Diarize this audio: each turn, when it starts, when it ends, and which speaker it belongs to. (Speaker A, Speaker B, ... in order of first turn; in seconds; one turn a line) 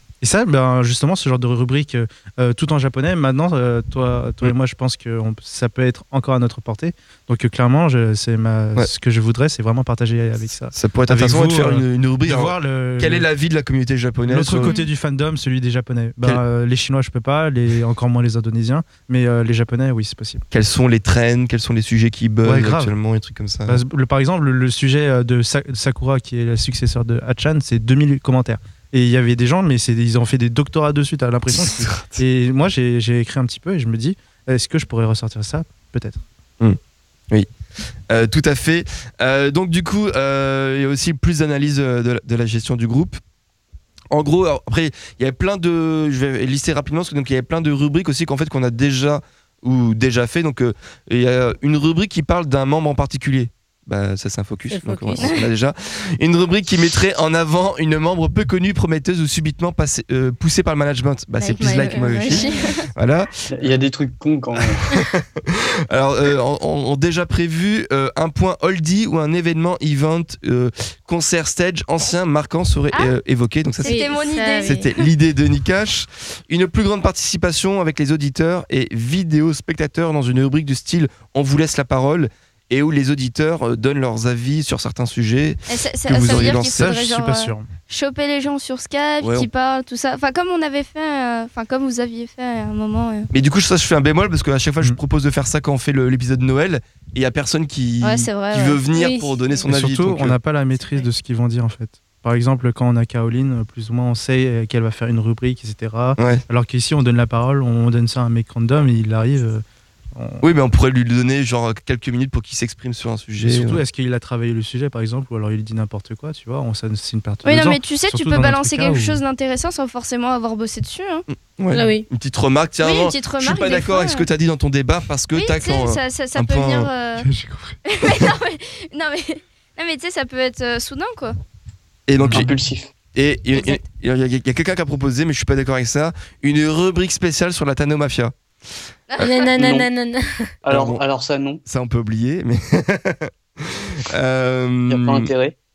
Speaker A: 0.2-13.3
Speaker B: 10.7-14.8
Speaker A: 14.3-20.4
Speaker C: 14.7-14.9
Speaker B: 20.5-23.8
Speaker A: 22.4-22.9
Speaker A: 23.7-36.2
Speaker B: 31.5-32.2
Speaker B: 38.1-43.2
Speaker B: 44.1-63.7
Speaker C: 54.7-55.5
Speaker D: 61.4-62.9
Speaker C: 61.8-62.6
Speaker E: 63.5-64.8
Speaker B: 64.6-74.0
Speaker D: 72.9-73.2
Speaker D: 73.8-74.9
Speaker C: 73.8-74.8
Speaker B: 74.6-87.0
Speaker D: 85.7-93.3
Speaker A: 86.2-87.7
Speaker B: 89.2-89.5
Speaker B: 93.3-100.3
Speaker D: 98.0-98.8
Speaker C: 98.9-99.6
Speaker A: 99.7-109.6
Speaker B: 106.2-106.4
Speaker A: 110.2-110.4
Speaker B: 110.4-113.8
Speaker A: 113.5-119.2
Speaker D: 117.4-121.3
Speaker B: 121.3-126.9
Speaker C: 121.7-122.1
Speaker D: 122.8-124.3
Speaker D: 125.3-127.3
Speaker A: 127.2-127.8
Speaker D: 127.8-131.4
Speaker B: 132.1-132.6
Speaker A: 132.2-132.6
Speaker E: 132.3-132.9
Speaker B: 133.1-138.3
Speaker D: 133.5-133.8
Speaker D: 139.1-139.5
Speaker C: 139.2-140.5
Speaker E: 139.5-139.9
Speaker E: 140.6-141.6
Speaker B: 140.7-141.0
Speaker B: 141.6-145.3
Speaker E: 144.9-145.6